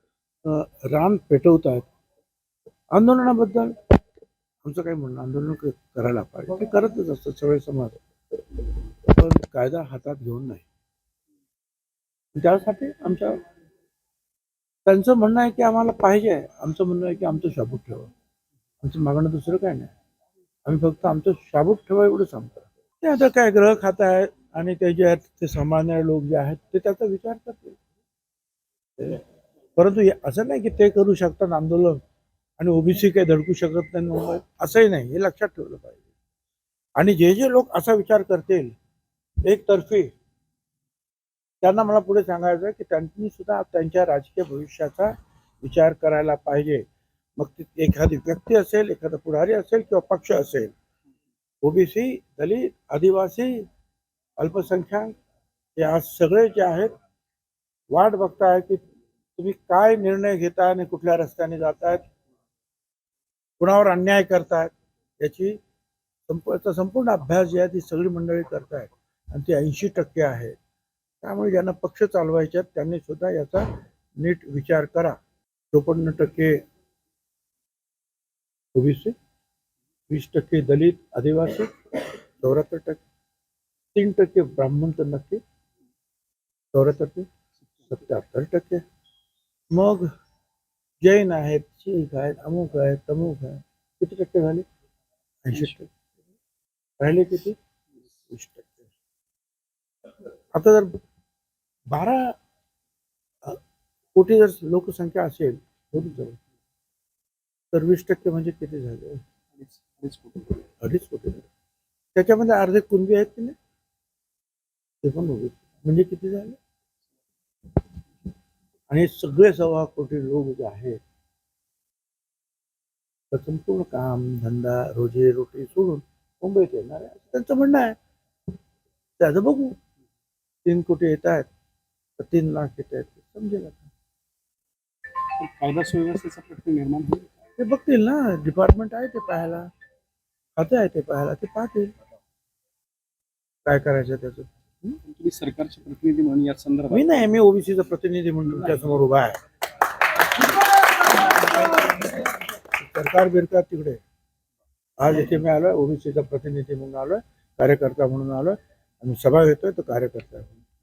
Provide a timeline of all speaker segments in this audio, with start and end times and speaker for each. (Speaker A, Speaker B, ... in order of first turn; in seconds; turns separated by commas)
Speaker A: 0.4-1.9, Speaker A: 2.9-3.8, Speaker A: 4.6-8.0, Speaker A: 8.5-10.7, Speaker A: 12.3-13.4, Speaker A: 14.9-18.1, Speaker A: 18.8-19.9, Speaker A: 20.7-27.8, Speaker A: 29.0-29.2, Speaker A: 29.8-32.0, Speaker A: 32.6-36.0, Speaker A: 37.0-38.7, Speaker A: 39.4-40.1, Speaker A: 41.6-46.9, Speaker A: 47.4-50.7, Speaker A: 51.6-53.7, Speaker A: 54.4-55.1, Speaker A: 55.8-56.9, Speaker A: 57.9-58.8, Speaker A: 59.4-62.0, Speaker A: 63.6-65.6, Speaker A: 66.3-70.6, Speaker A: 71.2-75.2, Speaker A: 75.7-76.6, Speaker A: 78.8-79.2, Speaker A: 80.1-81.7, Speaker A: 82.4-83.0, Speaker A: 83.9-85.4, Speaker A: 86.7-87.3, Speaker A: 87.8-88.8, Speaker A: 89.7-90.1, Speaker A: 91.0-94.7, Speaker A: 95.5-95.9, Speaker A: 97.0-97.6, Speaker A: 98.3-98.9, Speaker A: 100.5-100.9, Speaker A: 101.9-102.4, Speaker A: 104.2-106.4, Speaker A: 107.7-109.2, Speaker B: 109.6-110.6, Speaker A: 110.8-111.5, Speaker A: 112.2-113.5, Speaker A: 115.0-116.6, Speaker A: 118.9-121.0, Speaker A: 123.3-128.0, Speaker A: 129.2-129.8, Speaker A: 130.7-131.5, Speaker A: 132.2-133.9, Speaker B: 135.4-137.3, Speaker A: 137.6-139.7, Speaker A: 140.6-141.9, Speaker A: 143.7-145.0, Speaker B: 145.1-147.0, Speaker A: 146.9-149.4, Speaker A: 150.2-154.0, Speaker A: 155.0-160.5